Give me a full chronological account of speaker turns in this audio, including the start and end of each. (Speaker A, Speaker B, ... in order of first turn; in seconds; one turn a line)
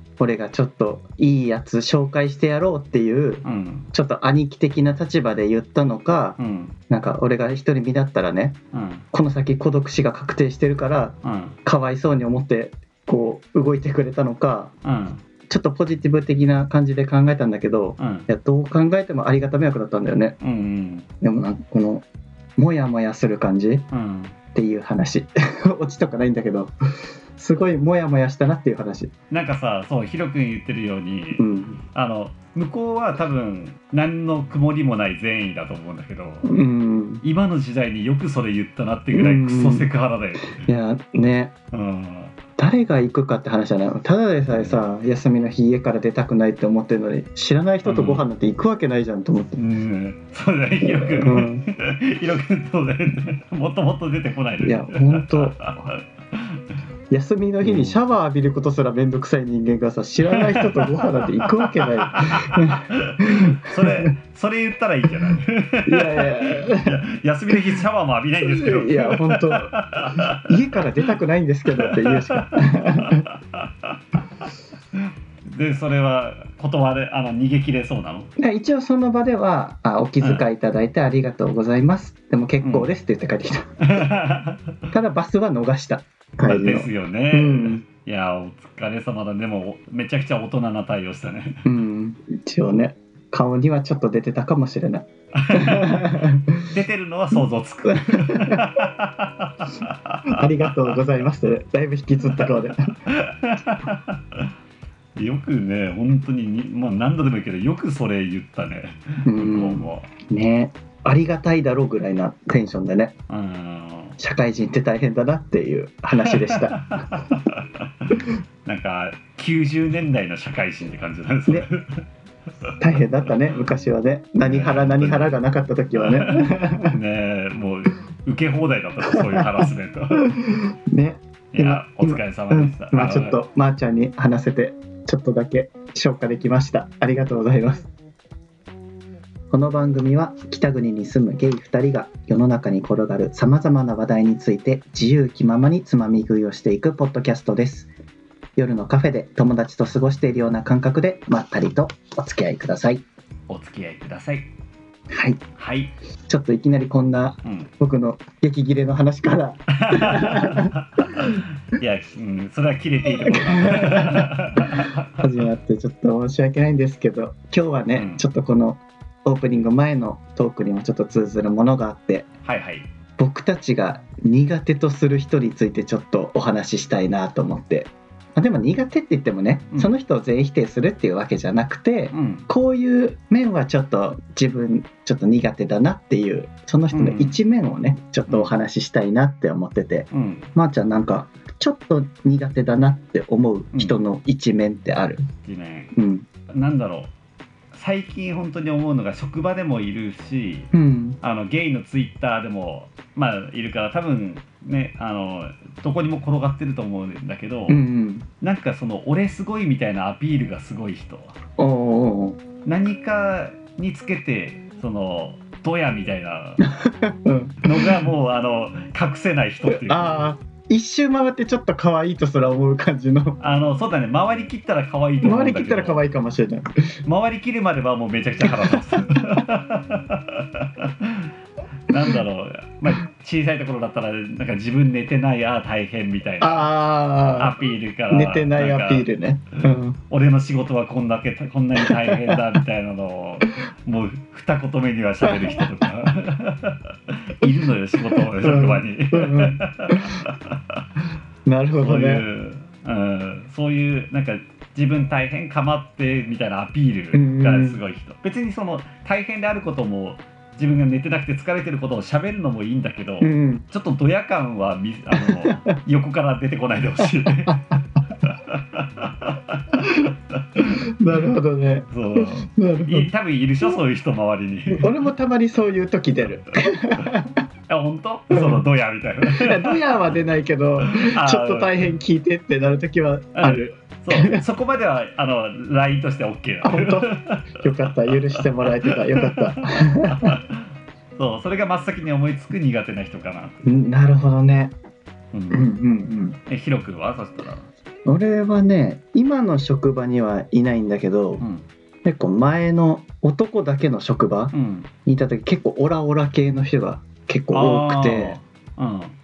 Speaker A: 0.2-6.4
Speaker B: 3.4-3.9
Speaker B: 6.4-6.8
Speaker A: 6.9-8.6
Speaker B: 8.7-9.1
Speaker A: 9.1-14.7
Speaker B: 11.2-11.6
Speaker B: 14.8-15.2
Speaker A: 15.5-20.4
Speaker B: 18.0-18.3
Speaker B: 20.4-21.1
Speaker A: 21.2-22.1
Speaker A: 22.6-23.9
Speaker B: 23.9-24.4
Speaker A: 24.6-26.7
Speaker A: 27.4-29.1
Speaker B: 29.3-36.5
Speaker A: 31.4-31.8
Speaker A: 36.5-37.2
Speaker B: 37.2-40.7
Speaker A: 39.1-39.9
Speaker A: 40.6-41.5
Speaker B: 41.7-42.4
Speaker A: 42.6-49.6
Speaker B: 44.5-44.8
Speaker B: 47.9-48.2
Speaker B: 49.6-56.6
Speaker A: 50.8-51.7
Speaker A: 54.6-55.7
Speaker A: 57.1-64.1
Speaker B: 57.6-58.0
Speaker B: 60.3-71.0
Speaker A: 65.9-67.8
Speaker A: 68.4-73.3
Speaker B: 71.7-74.0
Speaker B: 75.0-78.3
Speaker A: 78.4-83.7
Speaker B: 82.6-82.9
Speaker B: 83.8-84.8
Speaker A: 84.9-87.8
Speaker B: 86.4-91.7
Speaker A: 91.7-96.7
Speaker B: 95.3-100.9
Speaker A: 97.3-98.7
Speaker A: 100.3-102.9
Speaker B: 103.1-104.5
Speaker B: 105.2-110.1
Speaker A: 109.2-113.2
Speaker B: 113.3-114.2
Speaker A: 114.2-116.8
Speaker B: 116.2-122.0
Speaker B: 122.6-123.0
Speaker A: 122.8-127.0
Speaker B: 124.5-125.4
Speaker B: 126.0-130.4
Speaker A: 129.1-129.5
Speaker A: 130.2-137.9
Speaker B: 131.5-133.4
Speaker A: 139.5-147.9
Speaker A: 148.6-153.1
Speaker B: 153.5-154.5
Speaker A: 155.1-155.4
Speaker B: 155.6-155.9
Speaker A: 156.3-161.4
Speaker B: 157.4-157.7
Speaker B: 159.7-165.2
Speaker A: 163.0-172.3
Speaker B: 168.0-168.2
Speaker B: 172.4-172.9
Speaker A: 173.2-195.2
Speaker B: 182.1-182.5
Speaker B: 186.9-187.4
Speaker B: 190.1-190.5
Speaker B: 193.7-194.0
Speaker B: 195.4-195.9
Speaker A: 195.9-196.3
Speaker B: 196.5-197.1
Speaker B: 197.7-200.7
Speaker A: 200.7-201.2
Speaker B: 201.2-207.8
Speaker A: 207.7-208.3
Speaker B: 208.4-211.3
Speaker A: 211.6-212.4
Speaker B: 212.7-216.7
Speaker A: 216.7-218.0
Speaker B: 217.6-220.2
Speaker A: 219.7-223.4
Speaker B: 223.4-226.0
Speaker A: 225.2-226.7
Speaker B: 227.1-231.3
Speaker A: 228.4-229.4
Speaker B: 231.9-236.7
Speaker A: 236.4-237.6
Speaker B: 237.4-239.1
Speaker A: 238.1-240.0
Speaker B: 240.1-250.8
Speaker A: 241.8-242.4
Speaker A: 245.2-245.7
Speaker A: 248.2-250.2
Speaker A: 251.4-252.2
Speaker B: 251.8-267.6
Speaker A: 257.1-257.8
Speaker A: 263.2-263.6
Speaker A: 265.2-265.5
Speaker A: 267.3-267.8
Speaker B: 268.2-270.9
Speaker A: 269.8-273.1
Speaker B: 271.9-274.9
Speaker A: 274.7-277.4
Speaker B: 277.7-279.8
Speaker A: 278.3-278.6
Speaker A: 279.2-284.4
Speaker B: 280.8-281.9
Speaker B: 283.4-293.6
Speaker A: 286.6-290.4
Speaker A: 293.6-294.8
Speaker B: 295.3-295.7
Speaker A: 295.5-296.4
Speaker B: 296.5-297.7
Speaker A: 298.1-301.4
Speaker B: 301.4-301.7
Speaker A: 302.1-304.5
Speaker B: 304.5-304.9
Speaker A: 305.1-308.4
Speaker B: 307.5-309.1